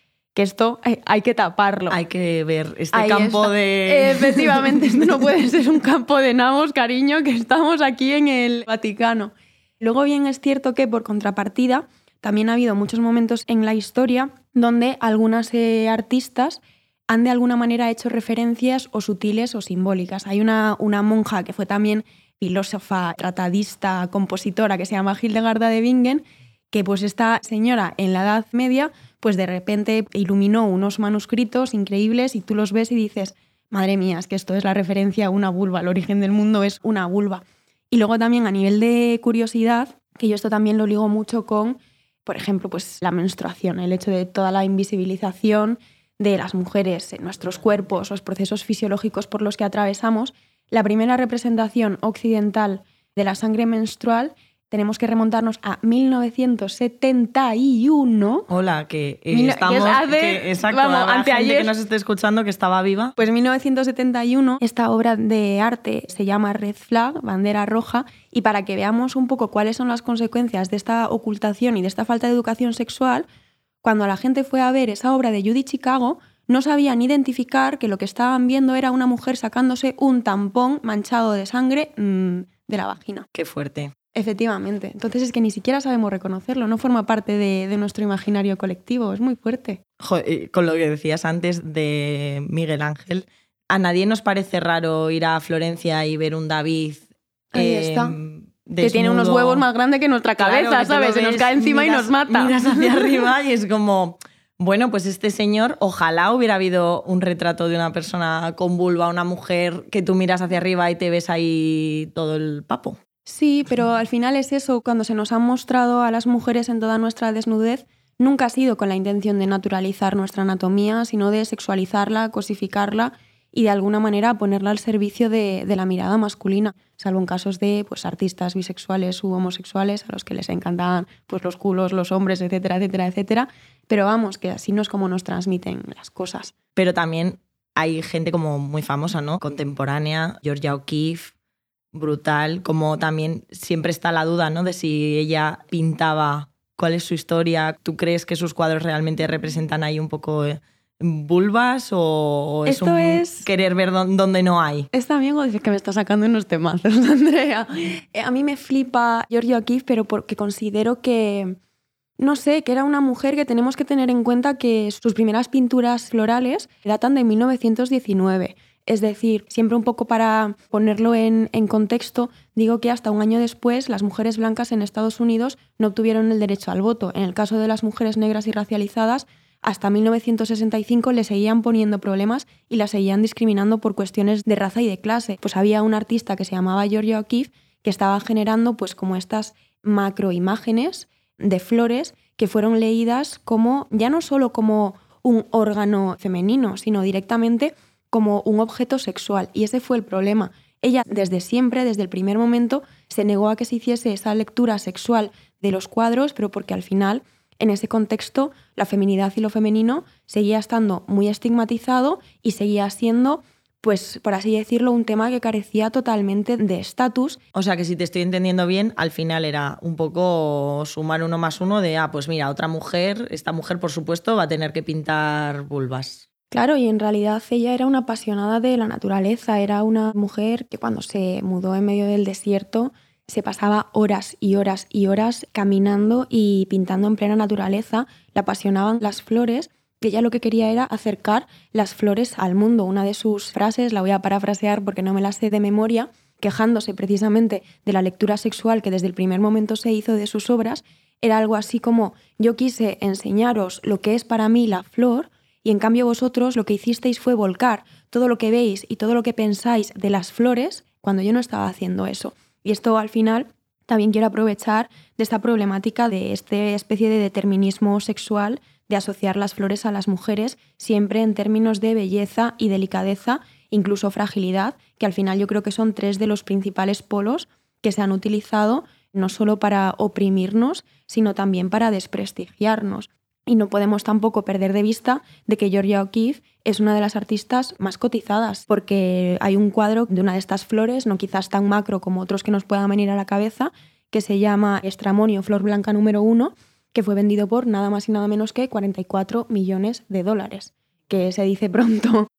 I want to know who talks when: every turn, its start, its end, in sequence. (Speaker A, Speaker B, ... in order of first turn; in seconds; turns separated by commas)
Speaker A: 0.3-2.0, Speaker B: 1.9-4.9, Speaker A: 2.9-58.5, Speaker B: 58.5-63.1, Speaker A: 59.3-61.7, Speaker A: 63.2-73.2, Speaker A: 73.8-83.3, Speaker B: 83.3-83.9, Speaker A: 84.1-89.8, Speaker B: 90.0-99.6, Speaker A: 97.5-98.2, Speaker A: 98.8-103.1, Speaker B: 100.4-113.0, Speaker A: 113.2-136.5, Speaker B: 136.8-141.3, Speaker B: 141.9-154.9, Speaker A: 152.7-153.5, Speaker A: 154.9-161.6, Speaker A: 162.2-217.4, Speaker B: 217.5-226.2, Speaker A: 226.5-302.3